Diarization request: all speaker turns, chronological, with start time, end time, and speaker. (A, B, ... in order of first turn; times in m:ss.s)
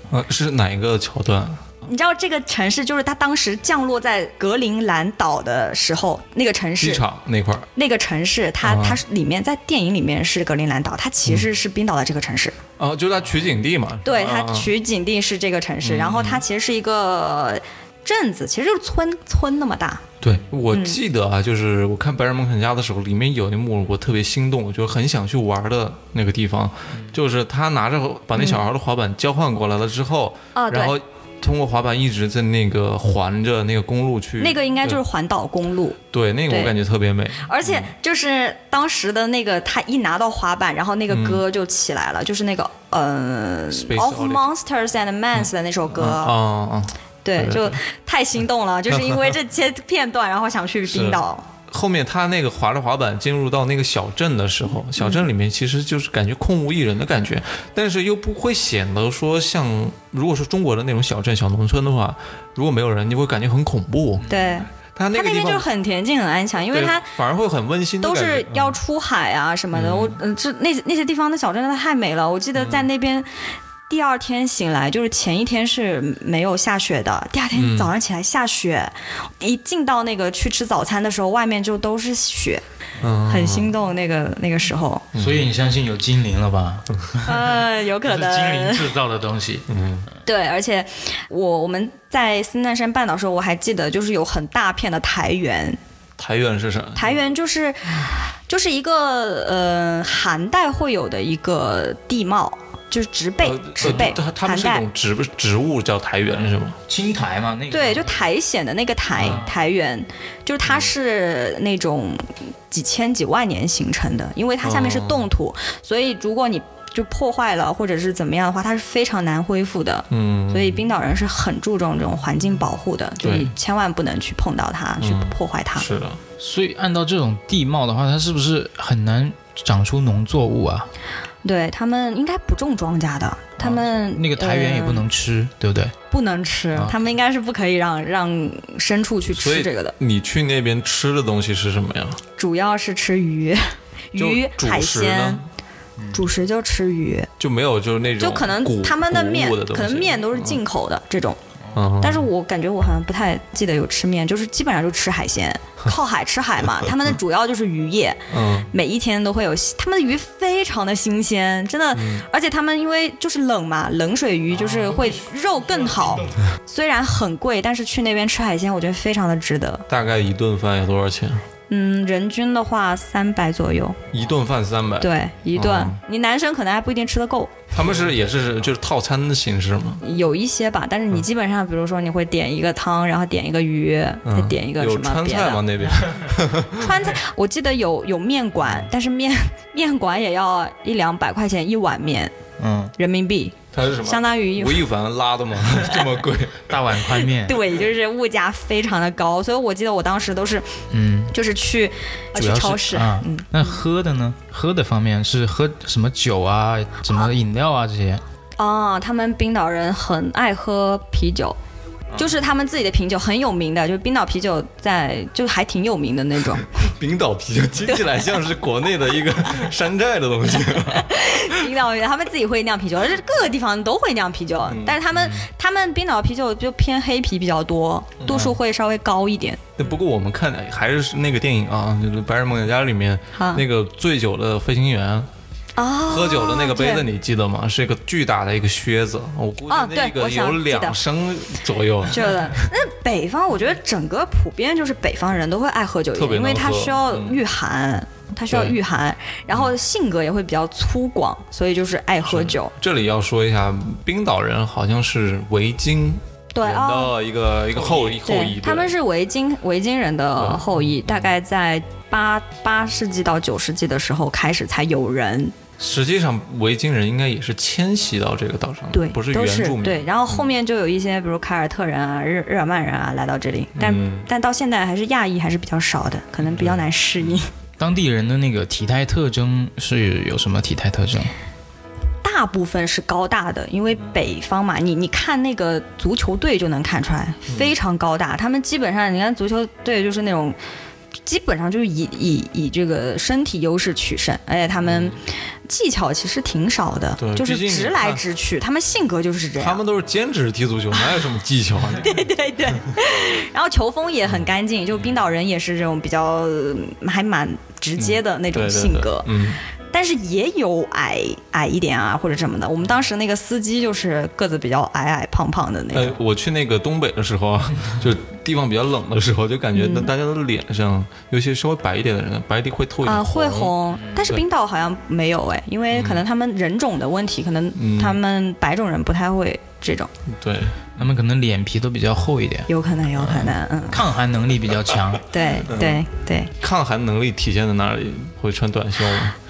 0:00.1-0:01.6 A
0:01.8-0:07.0 B
0:06.8-0:07.7 A
0:07.8-0:12.6 B
0:08.6-0:09.0 A
0:12.8-0:14.7 A
0:14.0-0:20.0 B
0:15.8-0:16.4 A
0:20.2-0:35.0 A
0:20.7-0:21.0 B
0:28.4-0:28.6 B
0:30.5-0:30.9 B
0:34.4-0:36.0 B
0:36.1-0:37.9 A
0:36.5-0:36.8 B
0:37.4-0:46.3 B
0:41.1-0:41.4 A
0:43.7-0:44.5 A
0:45.4-0:47.8 A
0:47.2-0:51.4 B
0:48.9-0:49.3 A
0:50.9-1:04.2 A
0:55.0-0:55.2 B
1:04.2-1:04.5 C
1:04.3-1:07.1 B
1:04.9-1:05.6 A
1:06.7-1:08.8 A
1:08.0-1:13.3 B
1:09.7-1:10.2 A
1:12.5-1:12.9 A
1:13.9-1:22.6 B
1:17.5-1:17.9 A
1:23.0-1:23.7 A
1:23.3-1:25.0 B
1:25.1-1:25.4 A
1:25.1-1:29.6 C
1:27.2-1:28.9 B
1:29.7-1:30.1 A
1:30.2-1:35.8 B
1:36.2-1:37.2 A
1:37.0-1:44.8 B
1:43.4-1:46.8 A
1:43.8-1:44.1 C
1:46.4-1:48.2 C
1:47.7-2:05.9 B
1:49.2-1:49.5 C
1:54.6-1:55.3 A
2:00.1-2:00.8 A
2:03.2-2:03.5 A
2:05.0-2:06.2 A
2:06.4-2:10.9 C
2:11.4-2:15.0 B
2:14.1-2:15.9 C
2:16.1-2:19.9 B
2:19.3-2:22.2 A
2:22.4-2:25.4 B
2:24.2-2:25.4 A
2:26.0-2:26.2 C
2:26.1-2:27.3 B
2:27.4-2:30.6 A
2:28.2-2:31.4 B
2:31.7-2:32.3 A
2:32.0-2:49.8 B
2:38.3-2:38.7 A
2:41.9-2:42.2 A
2:44.5-2:46.4 C
2:49.9-2:51.4 A
2:51.7-2:54.0 B
2:54.1-2:56.0 A
2:55.0-2:57.7 B
2:57.7-3:00.0 A
3:00.0-3:05.6 B
3:04.2-3:07.0 A
3:06.8-3:12.3 B
3:12.6-3:12.9 C
3:13.0-3:14.8 B
3:13.7-3:16.7 A
3:16.6-3:17.6 C
3:17.1-3:20.7 B
3:20.9-3:21.3 C
3:21.3-3:23.8 B
3:22.3-3:28.2 C
3:28.6-3:31.6 B
3:32.2-3:36.7 B
3:36.8-3:41.5 A
3:37.8-3:38.2 B
3:40.8-3:49.8 B
3:44.7-3:45.0 A
3:48.2-3:48.5 A
3:49.8-3:55.3 A
3:53.3-3:53.6 B
3:55.8-3:57.0 B
3:56.1-4:02.7 A
3:59.7-4:01.0 B
4:02.1-4:12.7 B
4:06.1-4:07.4 A
4:08.5-4:08.8 A
4:12.2-4:18.9 A
4:16.5-4:17.1 B
4:18.2-4:25.5 B
4:20.4-4:21.3 A
4:25.8-4:30.5 A
4:28.9-4:37.5 B
4:33.8-4:34.3 A
4:36.4-4:36.8 A
4:37.8-4:41.3 C
4:42.2-4:50.6 B
4:51.2-4:59.8 B
4:54.8-4:55.2 A
4:57.2-4:58.2 A
4:59.6-5:02.2 A
5:02.0-5:09.3 B
5:08.0-5:09.6 A
5:09.9-5:16.1 B
5:15.9-5:23.7 A
5:19.7-5:20.1 B
5:23.0-5:30.1 B
5:24.0-5:24.3 C
5:25.9-5:26.2 A
5:27.8-5:28.2 A
5:30.3-5:30.9 A
5:31.0-5:32.7 C
5:32.7-5:34.0 B
5:33.2-5:33.5 A
5:33.9-5:35.2 C
5:35.3-5:36.5 B
5:35.6-5:36.0 A
5:36.6-5:39.3 A